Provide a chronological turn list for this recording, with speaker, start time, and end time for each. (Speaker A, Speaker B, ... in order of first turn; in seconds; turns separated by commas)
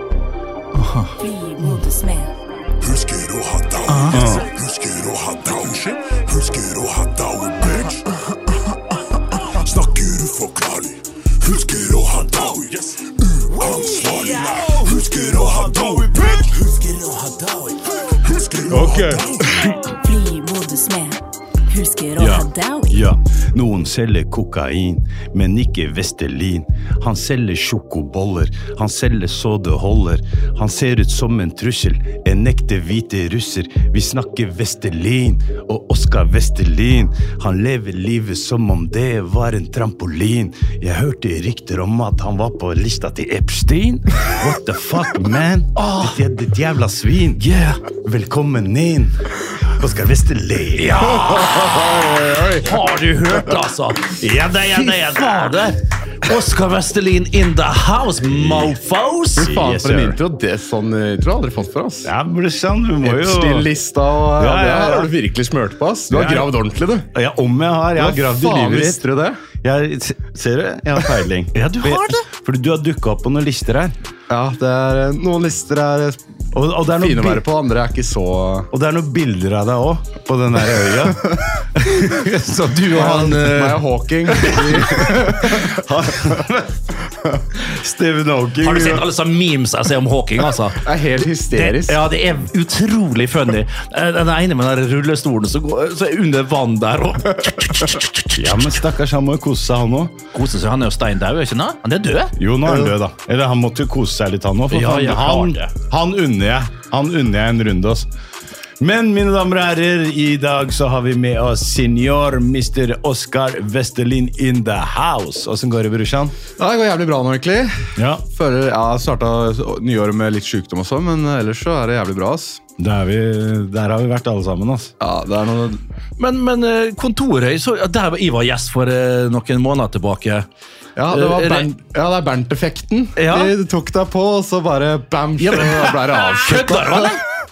Speaker A: 0.7-1.8, Speaker B: 1.2-2.3, Speaker C: 2.8-8.2, Speaker A: 3.9-4.3, Speaker D: 4.1-4.5, Speaker C: 9.3-19.9, Speaker D: 14.0-17.7, Speaker D: 18.7-19.8, Speaker B: 19.8-23.1, Speaker D: 22.2-47.4, Speaker A: 45.8-46.2, Speaker A: 47.4-47.8, Speaker D: 48.0-51.1, Speaker A: 50.8-59.5, Speaker E: 51.1-52.7, Speaker D: 54.1-55.6, Speaker D: 58.2-58.8, Speaker E: 59.4-62.1, Speaker D: 59.4-60.2, Speaker D: 62.0-63.7, Speaker E: 63.0-67.1, Speaker D: 64.4-65.1, Speaker D: 66.1-66.5, Speaker D: 67.1-69.0, Speaker E: 67.9-69.4, Speaker D: 69.6-73.9, Speaker A: 71.5-72.3, Speaker E: 74.3-76.2, Speaker D: 76.5-77.4, Speaker E: 76.9-78.7, Speaker D: 78.7-82.3, Speaker E: 80.7-81.6, Speaker A: 81.8-85.0, Speaker E: 82.9-86.5, Speaker D: 85.5-86.7, Speaker D: 87.5-89.1, Speaker A: 88.6-90.8, Speaker E: 90.8-92.0, Speaker A: 91.5-98.8, Speaker D: 98.3-100.1, Speaker A: 100.3-102.3, Speaker D: 102.3-108.1, Speaker E: 102.7-102.9, Speaker A: 104.7-105.6, Speaker D: 108.8-116.3, Speaker E: 116.6-122.6, Speaker D: 118.0-118.2, Speaker D: 122.8-124.9, Speaker E: 125.0-125.8, Speaker A: 126.2-130.4, Speaker E: 130.9-137.2, Speaker A: 131.1-131.7, Speaker A: 133.2-133.5, Speaker A: 135.4-137.2